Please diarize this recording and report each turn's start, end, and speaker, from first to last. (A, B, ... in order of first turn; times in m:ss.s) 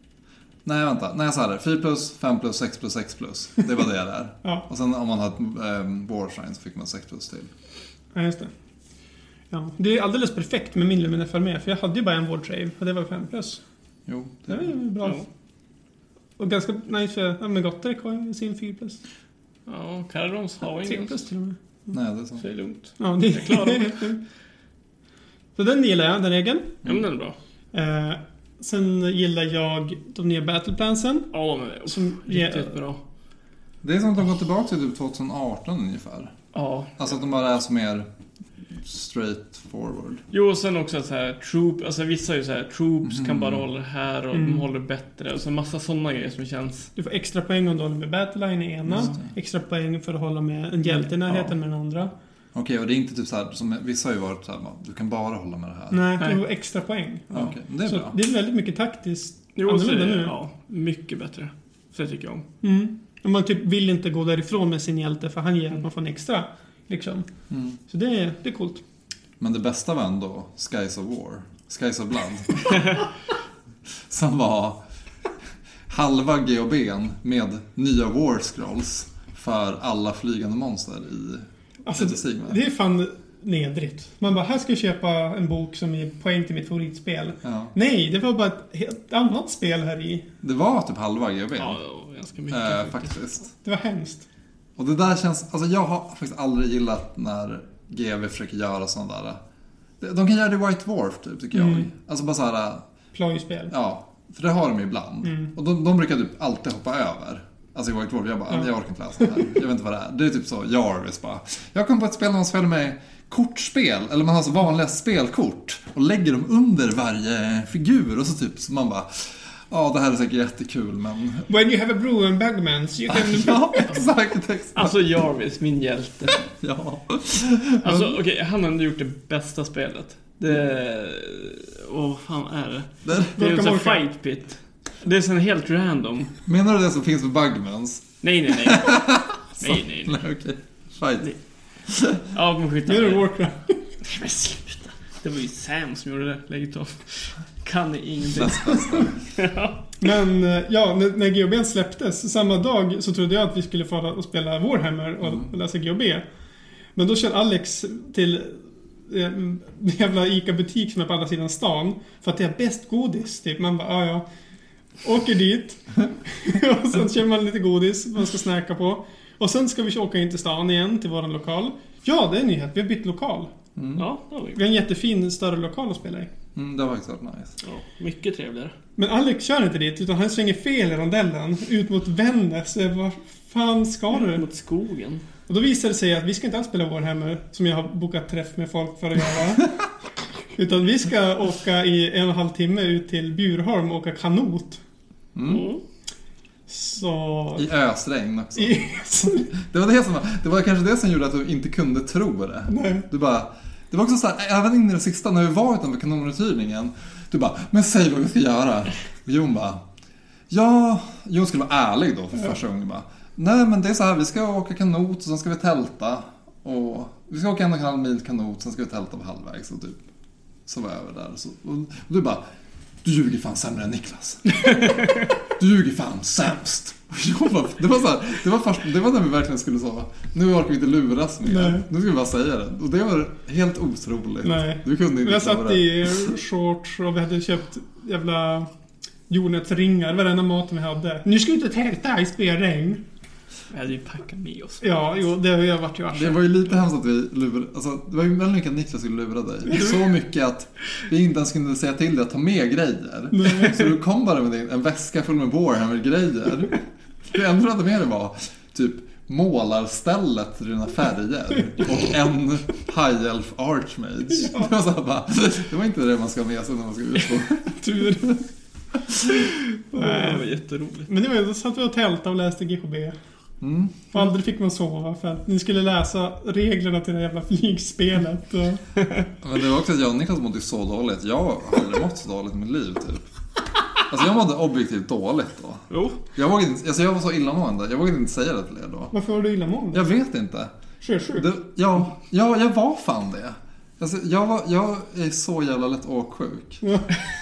0:00.6-0:07.5 A
0:08.1-0:08.5 B
0:09.5-0:13.6 B
0:14.1-0:14.7 A
0:14.5-0:15.2 B
0:16.4-0:19.0 B
0:19.7-0:21.2 C
0:20.6-0:21.6 B
0:21.9-0:22.4 A
0:22.4-0:24.1 C
0:23.0-0:24.2 B
0:25.6-0:26.8 B
0:26.8-0:27.4 C
0:27.7-0:31.3 B
0:31.3-0:33.0 C
0:31.9-0:32.8 B
0:33.8-0:36.3 A
0:36.5-0:37.0 C
0:37.0-0:38.1 A
0:38.7-0:40.2 A
0:40.3-0:46.9 C
0:43.0-0:43.6 A
0:44.3-0:44.6 B
0:47.0-0:52.1 B
0:48.9-0:49.2 A
0:52.5-0:56.0 A
0:55.9-1:00.3 B
0:57.3-0:58.2 A
0:59.6-1:02.4 C
1:02.6-1:07.3 B
1:07.5-1:07.8 A
1:07.9-1:08.8 B
1:09.4-1:13.0 A
1:14.0-1:14.8 A
1:15.9-1:22.6 A
1:21.8-1:30.2 B
1:27.4-1:27.7 A
1:30.4-1:31.8 A
1:31.6-1:33.1 C
1:32.5-1:33.5 A
1:33.6-1:34.2 B
1:34.8-1:39.4 A
1:40.0-1:42.8 A
1:41.5-1:41.9 B
1:43.1-1:43.7 B
1:43.7-2:01.4 A
1:45.2-1:45.5 B
2:01.5-2:04.0 B
2:03.1-2:05.0 A
2:04.8-2:06.4 C
2:06.4-2:08.2 A
2:07.8-2:16.3 C
2:13.0-2:13.3 A
2:13.4-2:14.0 B
2:16.4-2:21.3 A
2:18.2-2:20.2 C
2:21.8-2:22.2 A
2:22.2-2:23.3 C
2:22.9-2:24.0 B
2:24.0-2:29.8 C
2:28.3-2:29.3 A
2:30.0-2:36.2 B
2:35.2-2:35.5 A
2:37.0-2:44.2 B
2:45.0-2:53.5 B
2:53.8-2:54.0 A
2:54.0-2:54.6 C
2:54.5-2:56.3 B
2:56.5-2:57.6 A
2:57.6-2:58.7 C
2:59.0-3:04.4 B
3:04.1-3:05.2 C
3:05.5-3:09.7 B
3:10.6-3:14.8 B
3:15.3-3:15.7 A
3:15.4-3:15.8 C
3:16.7-3:17.7 B
3:17.6-3:29.8 A
3:18.6-3:19.5 B
3:22.7-3:23.1 B
3:30.5-3:40.0 A
3:40.7-3:42.4 A
3:43.0-3:44.9 A
3:45.4-3:56.3 A
3:51.4-3:51.9 B
3:54.4-3:58.7 B
3:59.3-4:03.0 B
4:03.7-4:04.8 C
4:04.8-4:06.5 B
4:06.1-4:28.3 A
4:13.3-4:13.9 B
4:27.7-4:28.4 B
4:29.9-4:30.4 B
4:29.9-4:31.1 C
4:31.1-4:33.1 B
4:33.6-4:34.1 A
4:34.1-4:38.8 B
4:39.4-4:43.2 A
4:44.0-4:49.1 A
4:45.9-4:46.2 C
4:49.1-4:50.1 B
4:49.9-4:50.7 A
4:51.0-4:51.5 B
4:51.3-4:56.8 A
4:56.8-4:57.1 B